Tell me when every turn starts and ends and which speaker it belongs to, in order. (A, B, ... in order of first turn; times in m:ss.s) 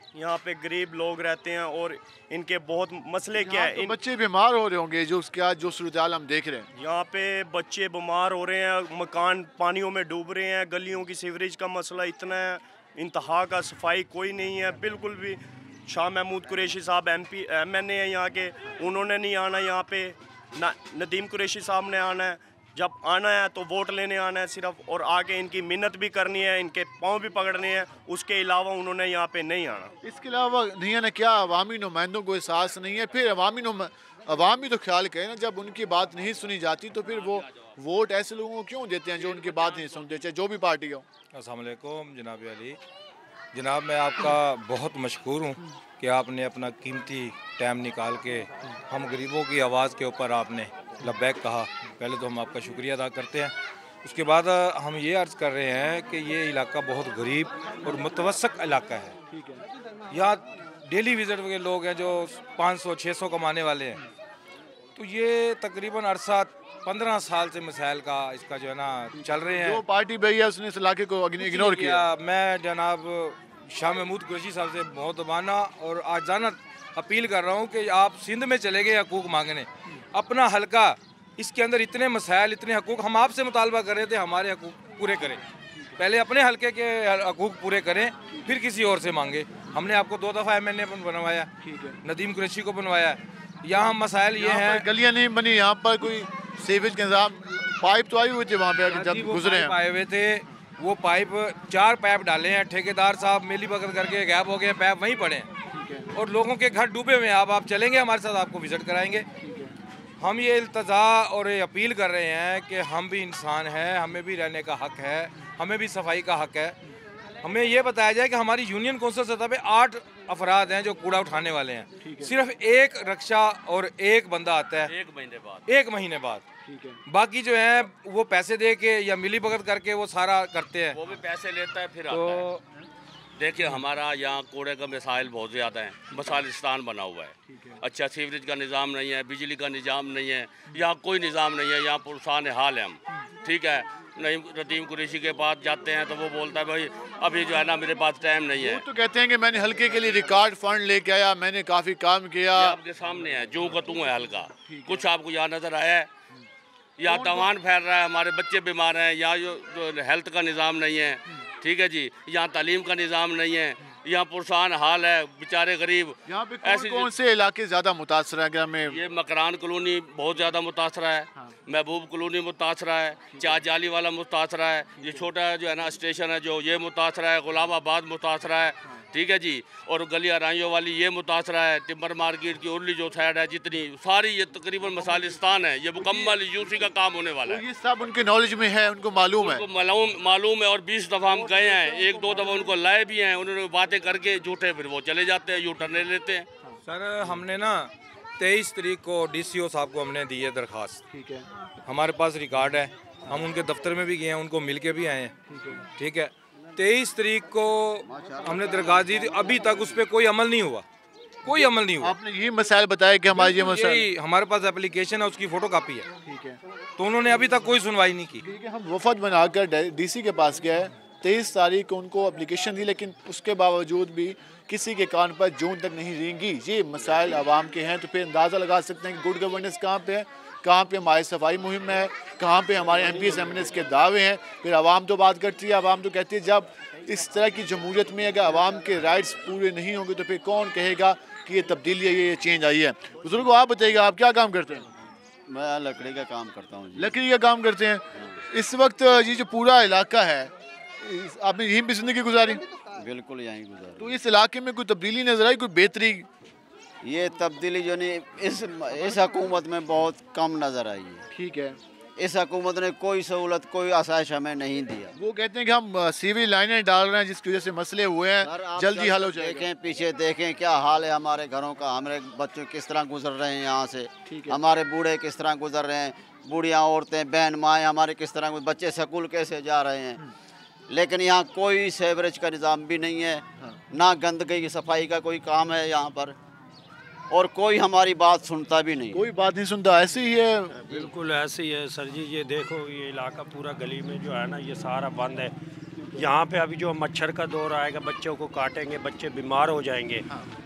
0:00.1-0:04.0 A
0:03.4-0:06.7 B
0:06.7-0:29.9 A
0:30.0-0:41.0 B
0:41.3-0:42.8 C
0:43.5-0:59.2 C
0:59.3-0:59.6 B
1:00.1-1:04.0 C
1:05.0-1:09.8 C
1:09.5-1:12.0 B
1:11.4-1:25.4 C
1:26.0-1:31.5 C
1:31.6-1:32.0 B
1:32.0-1:34.8 C
1:34.4-1:39.8 B
1:38.9-1:45.5 C
1:45.7-1:46.1 B
1:46.1-1:49.3 C
1:49.4-1:49.8 B
1:50.2-1:56.8 C
1:57.4-2:04.9 C
2:02.0-2:02.3 B
2:04.9-2:05.6 D
2:05.7-2:06.4 C
2:06.7-2:07.0 B
2:07.1-2:11.0 C
2:11.0-2:12.5 D
2:12.1-2:12.6 C
2:13.4-2:28.8 D
2:28.6-2:32.8 B
2:32.6-2:36.1 D
2:34.7-2:35.0 B
2:37.0-2:47.1 D
2:37.0-2:37.5 B
2:46.2-2:49.0 B
2:48.9-3:07.6 D
2:53.3-2:53.6 B
2:55.0-2:55.2 B
3:06.0-3:06.3 B
3:07.4-3:09.7 B
3:09.4-3:16.5 D
3:11.7-3:12.3 B
3:16.8-3:21.0 C
3:21.1-3:21.5 B
3:21.8-3:25.3 C
3:25.5-3:25.8 B
3:26.0-3:30.8 C
3:28.1-3:29.8 E
3:31.4-3:32.2 C
3:31.5-3:34.0 B
3:33.3-3:36.1 C
3:36.2-3:36.6 B
3:37.0-3:38.4 C
3:38.4-4:04.9 B
4:05.5-4:07.2 E
4:07.0-4:12.6 B
4:13.0-4:14.2 E
4:14.0-4:16.3 B
4:17.0-4:21.2 E
4:21.3-4:21.8 B
4:22.2-4:25.2 E
4:25.2-4:29.7 B
4:28.4-4:40.2 E
4:34.2-4:34.6 B
4:40.9-4:46.4 E
4:47.3-4:49.2 E
4:49.1-4:51.1 B
4:50.8-4:55.5 F
4:56.1-5:00.2 F